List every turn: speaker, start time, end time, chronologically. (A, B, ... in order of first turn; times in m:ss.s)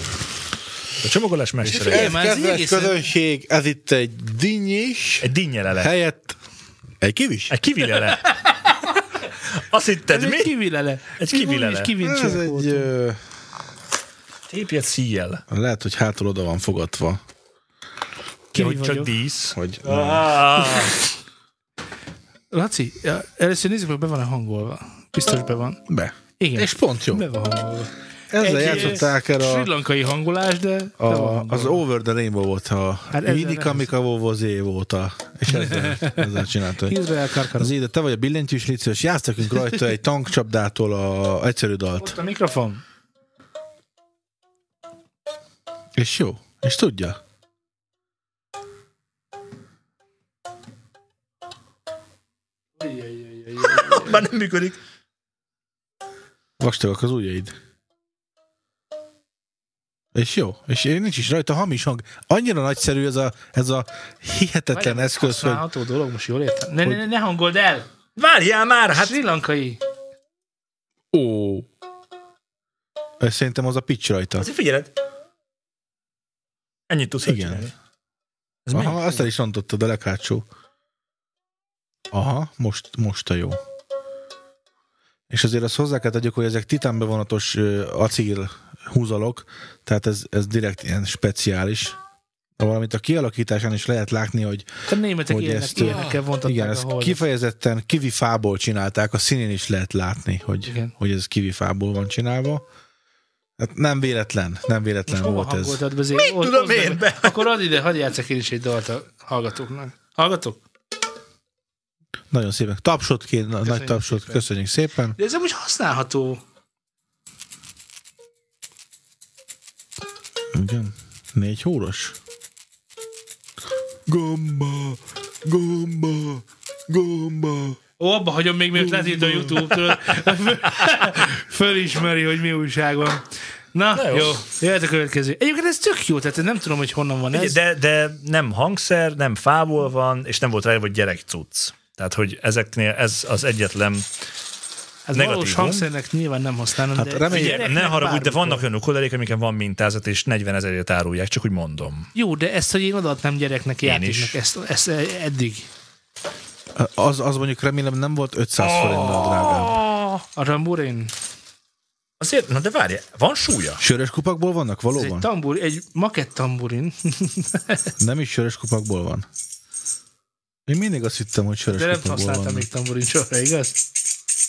0:01.0-0:02.1 A
0:01.6-0:06.3 B
0:01.9-0:03.0 C
0:05.2-0:05.9 A
0:07.0-0:07.6 B
0:07.5-0:08.3 A
0:08.1-0:08.3 C
0:09.5-0:10.5 A
0:10.1-0:12.9 C
0:11.2-0:11.9 A
0:12.0-0:13.2 B
0:14.5-0:15.4 A
0:15.5-0:17.2 B
0:18.5-0:19.1 C
0:18.6-0:20.9 A
0:19.5-0:20.3 B
0:22.5-0:25.8 C
0:25.9-0:27.2 B
0:26.4-0:31.8 C
0:28.3-0:29.7 B
0:31.0-0:37.0 B
0:33.1-0:33.9 C
0:35.6-0:36.3 C
0:36.8-0:37.7 C
0:37.5-0:42.2 B
0:42.0-0:42.8 C
0:46.0-0:47.2 B
0:52.8-0:54.3 C
0:53.6-0:54.8 A
0:56.6-0:57.5 B
1:00.1-1:05.6 B
1:04.7-1:07.9 C
1:08.2-1:09.2 A
1:08.9-1:09.8 C
1:11.1-1:11.7 B
1:13.2-1:14.5 B
1:14.4-1:14.9 A
1:16.9-1:17.7 A
1:17.2-1:17.6 B
1:18.6-1:19.2 A
1:18.7-1:20.4 B
1:22.1-1:23.6 B
1:25.3-1:32.0 B
1:32.6-1:34.7 B
1:34.9-1:37.2 C
1:35.3-1:42.6 B
1:40.6-1:40.9 C
1:43.6-1:45.8 B
1:45.1-1:50.6 C
1:46.1-1:47.5 A
1:52.3-1:55.2 B
1:53.6-1:54.4 C
1:55.2-1:56.4 C
2:00.5-2:02.2 B
2:04.1-2:07.8 B
2:08.0-2:17.6 C
2:08.7-2:09.9 B
2:13.9-2:14.4 A
2:17.3-2:24.0 A
2:25.1-2:28.6 C
2:25.1-2:25.9 A
2:26.9-2:27.7 B
2:27.3-2:32.1 A
2:32.1-2:35.7 C
2:33.8-2:34.4 A
2:36.7-2:39.8 B
2:38.6-2:40.2 A
2:40.3-2:41.1 C
2:42.2-2:43.8 A
2:43.8-2:45.3 B
2:44.9-2:47.9 C
2:48.0-2:49.2 B
2:50.7-2:52.7 B
2:51.7-2:53.8 C